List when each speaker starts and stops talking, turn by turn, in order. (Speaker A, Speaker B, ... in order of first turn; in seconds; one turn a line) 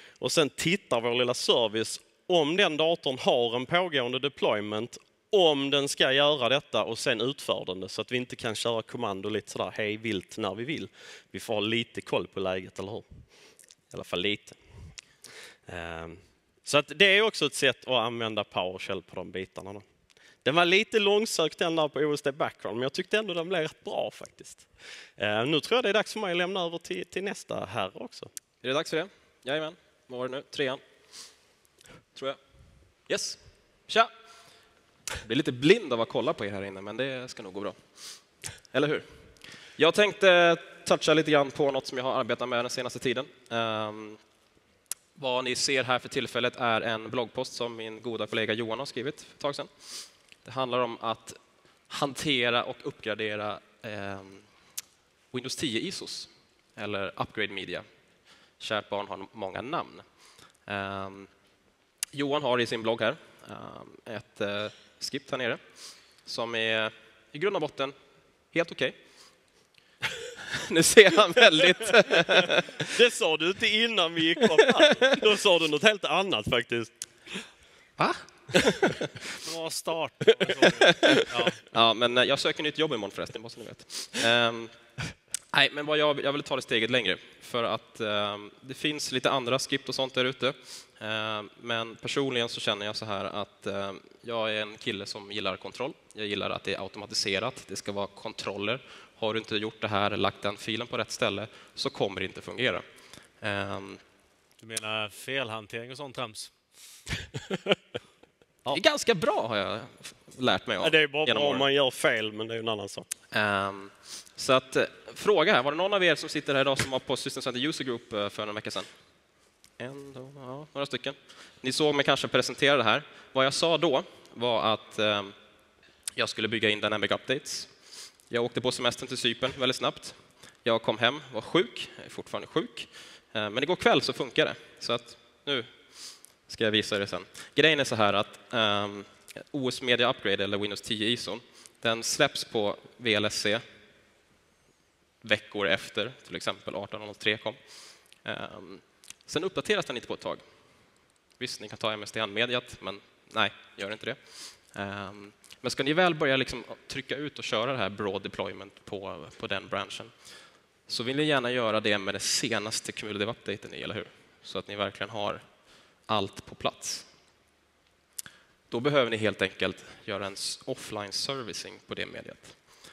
Speaker A: 0.2-13.2
Speaker A: 13.9-14.9
Speaker A: 15.7-19.8
Speaker A: 20.4-28.3
Speaker B: 28.6-30.8
Speaker B: 33.1-34.1
Speaker B: 35.2-37.8
Speaker B: 38.7-39.1
Speaker B: 39.8-44.2
Speaker B: 45.1-49.7
Speaker B: 50.4-51.4
Speaker B: 51.9-54.4
Speaker B: 55.3-57.9
Speaker B: 58.6-60.0
Speaker B: 60.7-61.3
Speaker B: 62.1-65.6
Speaker B: 66.2-67.9
Speaker B: 68.5-69.0
Speaker B: 70.4-72.8
Speaker A: 72.8-76.9
Speaker B: 78.0-79.1
Speaker C: 79.4-81.6
Speaker B: 80.8-84.8
Speaker B: 85.5-102.8
Speaker B: 103.4-104.0
Speaker C: 104.6-106.5
Speaker B: 108.7-111.6
Speaker A: 110.8-113.1
Speaker B: 113.3-118.9
Speaker B: 119.8-125.3
Speaker B: 126.2-127.7
Speaker B: 128.3-135.7
Speaker B: 136.5-143.6
Speaker B: 145.2-147.6
Speaker B: 148.2-150.4
Speaker B: 151.4-160.1
Speaker B: 160.9-165.4
Speaker B: 166.1-167.1
Speaker B: 168.7-172.6